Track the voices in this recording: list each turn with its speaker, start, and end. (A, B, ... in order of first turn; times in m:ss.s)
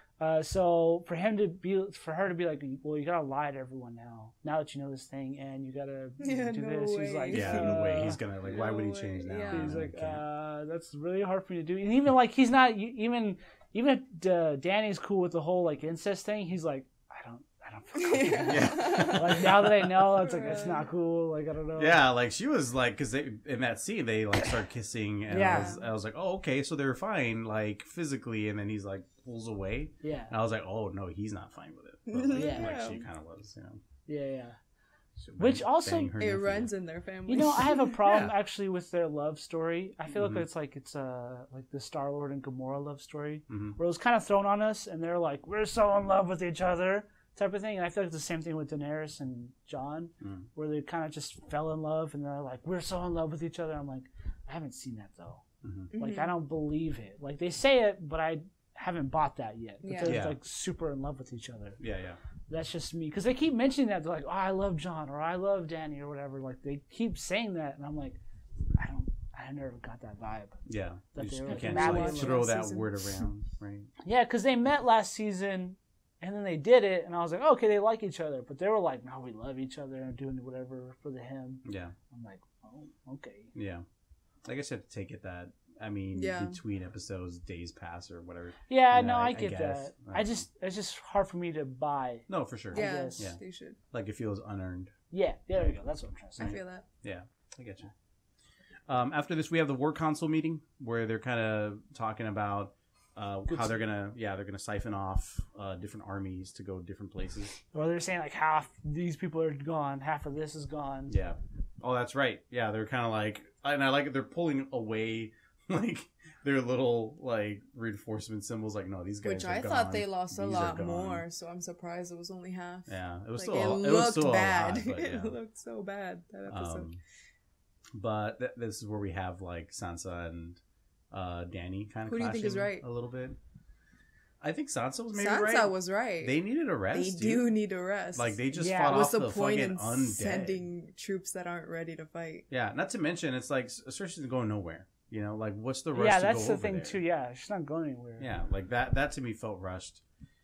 0:00.2-0:08.2 A
0:06.2-0:09.8 B
0:07.3-0:10.2 C
0:09.5-0:22.0 A
0:18.0-0:19.5 B
0:18.5-0:19.5 C
0:20.0-0:20.9 B
0:21.8-0:33.8 C
0:25.3-0:25.8 A
0:25.4-0:25.8 B
0:30.0-0:30.3 A
0:32.1-0:33.0 B
0:32.3-0:32.8 A
0:34.1-0:34.6 A
0:35.2-0:36.7 C
0:35.4-0:36.1 A
0:36.2-0:37.9 B
0:37.3-1:01.8 A
0:38.0-0:38.3 C
0:40.1-0:40.4 C
0:43.5-0:43.8 C
0:50.2-0:50.5 C
0:55.6-0:55.9 C
0:55.9-0:56.3 B
0:59.8-1:00.2 B
1:00.0-1:00.4 C
1:01.8-1:02.2 C
1:02.5-1:08.2 A
1:08.7-1:10.6 A
1:10.7-1:13.9 C
1:11.1-1:12.4 A
1:11.4-1:13.1 B
1:14.0-1:23.5 A
1:21.6-1:21.9 C
1:23.5-1:23.8 C
1:24.4-1:30.4 C
1:26.1-1:26.6 B
1:28.7-1:33.3 A
1:32.3-1:33.4 C
1:32.7-1:33.8 B
1:33.9-1:34.9 C
1:35.1-1:36.6 A
1:36.4-1:36.8 B
1:36.4-1:37.9 C
1:38.9-1:47.5 C
1:47.7-1:51.2 A
1:51.1-2:01.2 C
1:59.2-2:06.9 B
2:02.9-2:05.4 C
2:06.5-2:07.0 C
2:08.0-2:13.4 C
2:12.1-2:12.8 B
2:14.4-2:17.5 C
2:15.1-2:16.4 B
2:16.9-2:22.4 B
2:18.1-2:20.6 C
2:18.5-2:19.0 A
2:22.5-2:27.0 C
2:25.9-2:28.3 A
2:28.2-2:30.0 C